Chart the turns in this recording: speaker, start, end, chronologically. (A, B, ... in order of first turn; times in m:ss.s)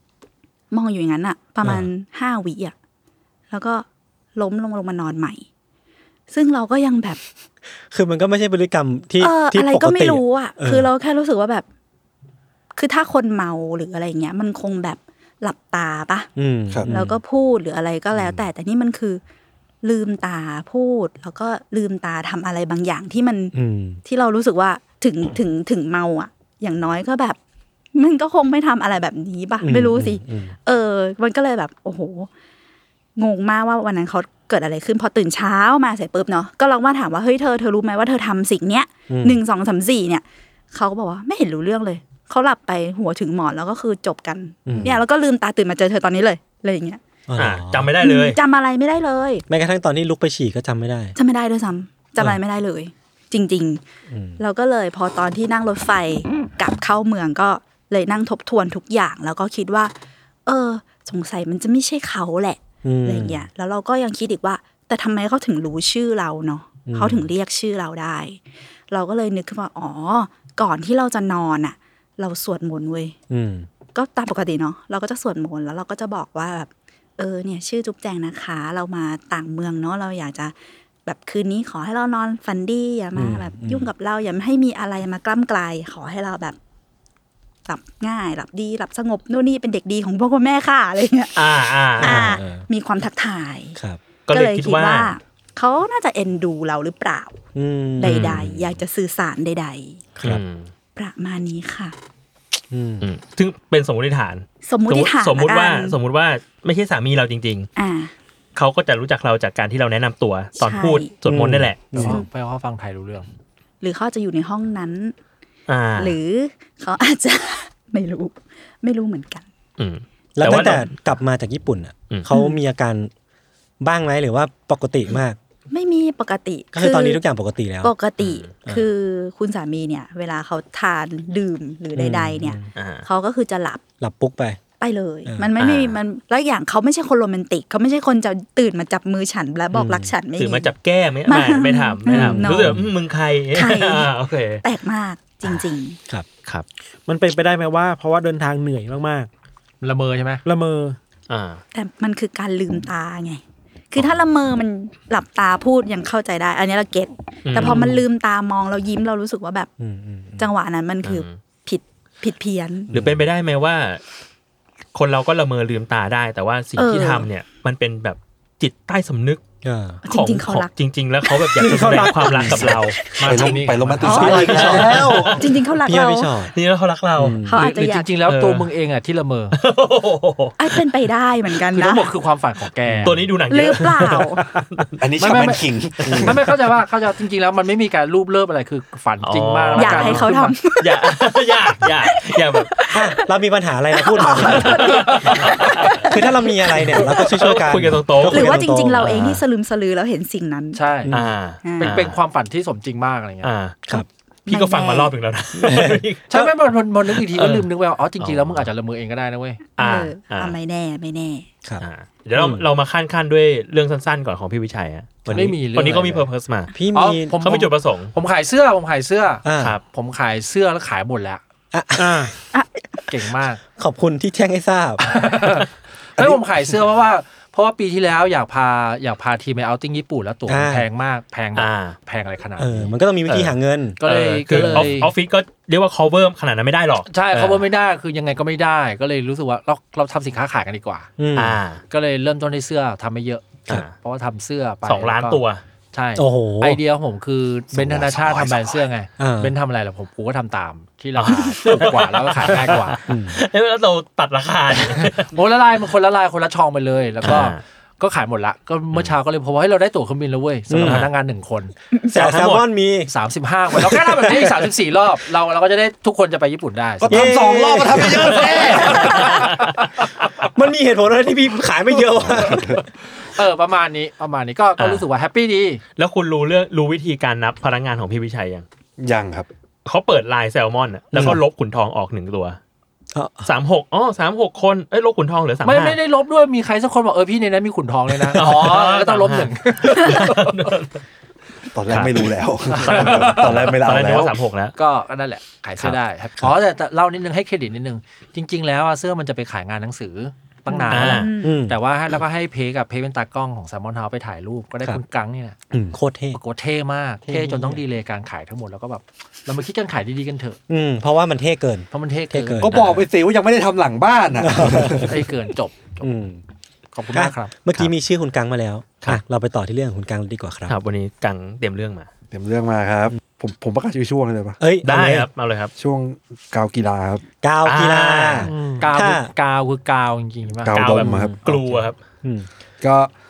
0:00.7-0:02.7 A
0:03.5-0:05.4 A
0:06.3-0:07.2 A
0:07.9-0:10.9 B
0:09.2-0:11.6 A
0:12.8-0:16.3 A
0:16.4-0:17.2 B
0:16.8-0:19.2 A
0:19.8-0:27.4 A
0:23.5-0:24.0 B
0:27.9-0:32.3 A
0:29.6-0:30.5 B
0:33.2-0:47.0 A
0:39.1-0:39.4 B
0:44.6-0:45.0 B
0:47.3-0:47.9 B
0:47.4-0:48.4 C
0:48.0-0:49.4 A
0:49.5-0:51.1 B
0:51.2-0:53.8 A
0:54.1-0:54.4 B
0:54.4-0:59.9 A
1:00.4-1:08.4 A
1:02.8-1:03.5 B
1:06.8-1:07.3 B
1:08.9-1:13.2 A
1:13.3-1:13.7 B
1:13.9-1:20.5 A
1:21.0-1:26.6 A
1:23.1-1:23.9 B
1:27.7-1:31.3 A
1:31.4-1:32.3 C
1:32.0-1:32.6 B
1:32.0-1:33.8 A
1:34.3-1:35.1 C
1:34.3-1:37.4 A
1:37.5-1:38.5 B
1:38.0-1:40.0 A
1:38.0-1:38.5 C
1:40.2-1:40.4 B
1:40.2-1:40.7 C
1:41.0-1:41.9 A
1:42.7-1:43.1 B
1:43.0-1:47.7 C
1:44.6-1:46.0 A
1:47.8-1:48.1 A
1:48.5-1:52.0 C
1:50.6-1:51.1 A
1:51.2-1:52.2 B
1:51.9-1:53.3 D
1:53.8-1:55.1 A
1:55.7-1:56.2 C
1:56.0-1:59.4 A
1:59.8-2:00.9 C
2:00.4-2:03.1 B
2:02.3-2:02.6 A
2:03.8-2:05.4 B
2:05.7-2:07.2 A
2:06.7-2:07.9 B
2:07.8-2:13.8 A
2:08.2-2:08.5 C
2:12.0-2:12.7 B
2:12.7-2:13.0 C
2:14.0-2:14.6 B
2:14.8-2:20.7 A
2:15.6-2:16.0 C
2:19.7-2:20.1 B
2:20.4-2:24.6 C
2:21.3-2:22.8 A
2:22.1-2:22.9 B
2:23.5-2:26.0 A
2:27.0-2:29.3 E
2:29.8-2:30.4 D
2:30.4-2:31.0 E
2:31.3-2:31.6 C
2:31.7-2:33.4 A
2:33.9-2:39.7 A
2:37.5-2:37.9 C
2:39.8-2:40.5 B
2:40.4-2:42.9 A
2:41.0-2:41.4 C
2:42.9-2:44.0 C
2:44.9-2:49.4 C
2:46.8-2:47.3 A
2:49.6-2:50.0 B
2:50.0-2:50.7 A
2:50.1-2:53.0 C
2:51.2-2:56.3 A
2:51.6-2:52.7 B
2:51.6-2:52.0 E
2:53.2-2:54.9 D
2:53.2-2:55.2 F
2:54.1-2:56.5 B
2:54.6-2:55.5 C
2:56.5-2:57.4 C
2:57.2-2:57.6 B
2:57.4-2:58.1 A
2:57.5-2:59.6 D
2:58.2-2:58.7 C
2:59.5-3:00.6 C
3:00.6-3:02.1 A
3:01.7-3:03.2 D
3:03.0-3:04.2 C
3:03.5-3:04.4 A
3:05.0-3:06.4 F
3:05.2-3:10.6 D
3:09.2-3:12.7 C
3:09.8-3:11.2 A
3:12.0-3:13.2 A
3:12.9-3:15.0 B
3:14.0-3:17.2 A
3:14.5-3:16.0 C
3:16.0-3:19.4 B
3:17.0-3:18.6 C
3:18.3-3:20.8 A
3:20.7-3:21.1 D
3:21.0-3:21.3 B
3:21.1-3:22.2 C
3:21.6-3:22.0 A
3:21.8-3:23.5 D
3:23.4-3:23.8 C
3:24.5-3:26.5 C
3:24.5-3:25.1 A
3:25.6-3:26.4 B
3:26.3-3:29.6 D
3:27.1-3:28.7 C
3:29.8-3:31.5 A
3:29.8-3:30.6 C
3:31.8-3:36.7 C
3:32.4-3:32.6 B
3:35.2-3:35.6 B
3:35.3-3:36.3 D
3:36.7-3:37.3 B
3:36.9-3:41.4 D
3:37.4-3:38.1 C
3:39.4-3:39.8 B
3:41.7-3:42.3 B
3:42.0-3:42.3 E
3:43.1-3:43.6 D
3:43.8-3:45.0 B
3:45.0-3:52.9 D
3:50.5-3:50.9 B
3:51.5-3:52.0 C
3:52.6-3:54.0 B
3:53.3-3:57.7 C
3:54.0-3:55.1 D
3:54.5-3:54.9 B
3:57.1-4:01.1 D
4:01.2-4:01.6 B
4:01.3-4:01.8 C
4:01.9-4:13.0 D
4:03.7-4:03.9 C
4:04.8-4:05.6 C
4:06.2-4:06.8 B
4:07.7-4:08.8 F
4:09.2-4:09.5 B
4:11.2-4:15.3 C
4:13.1-4:13.4 B
4:14.9-4:21.7 D
4:17.2-4:17.6 C
4:20.7-4:21.0 B
4:20.8-4:21.1 C
4:22.1-4:23.1 B
4:22.1-4:22.6 C
4:23.1-4:27.4 D
4:23.7-4:24.5 B
4:27.0-4:29.4 F
4:27.1-4:29.2 B
4:28.3-4:29.7 C
4:28.7-4:29.2 D
4:30.5-4:32.8 B
4:32.2-4:32.8 F
4:33.4-4:35.8 D
4:34.8-4:35.0 C
4:36.0-4:38.6 C
4:39.0-4:39.5 F
4:39.8-4:42.6 C
4:41.1-4:41.4 B
4:43.1-4:43.5 B
4:43.4-4:46.0 C
4:45.6-4:50.5 D
4:48.1-4:51.0 C
4:51.7-4:54.4 F
4:51.9-4:54.7 C
4:52.7-4:53.8 D
4:54.8-5:05.6 D
5:00.7-5:01.5 A
5:00.9-5:01.3 C
5:01.4-5:01.8 B
5:05.7-5:06.4 B
5:06.3-5:10.6 D
5:07.3-5:07.8 B
5:10.7-5:12.9 B
5:11.9-5:12.9 D
5:12.6-5:15.2 F
5:14.4-5:15.2 B
5:15.0-5:16.1 D
5:16.0-5:16.4 B
5:16.9-5:17.5 D
5:17.1-5:20.7 B
5:20.7-5:22.1 C
5:22.3-5:24.6 F
5:24.6-5:25.3 B
5:24.8-5:25.7 C
5:25.8-5:27.2 F
5:27.4-5:29.3 B
5:27.6-5:28.5 C
5:28.5-5:28.8 E
5:28.6-5:30.9 D
5:30.6-5:31.4 F
5:30.7-5:32.0 C
5:31.0-5:31.4 B
5:32.2-5:32.5 B
5:32.8-5:33.1 F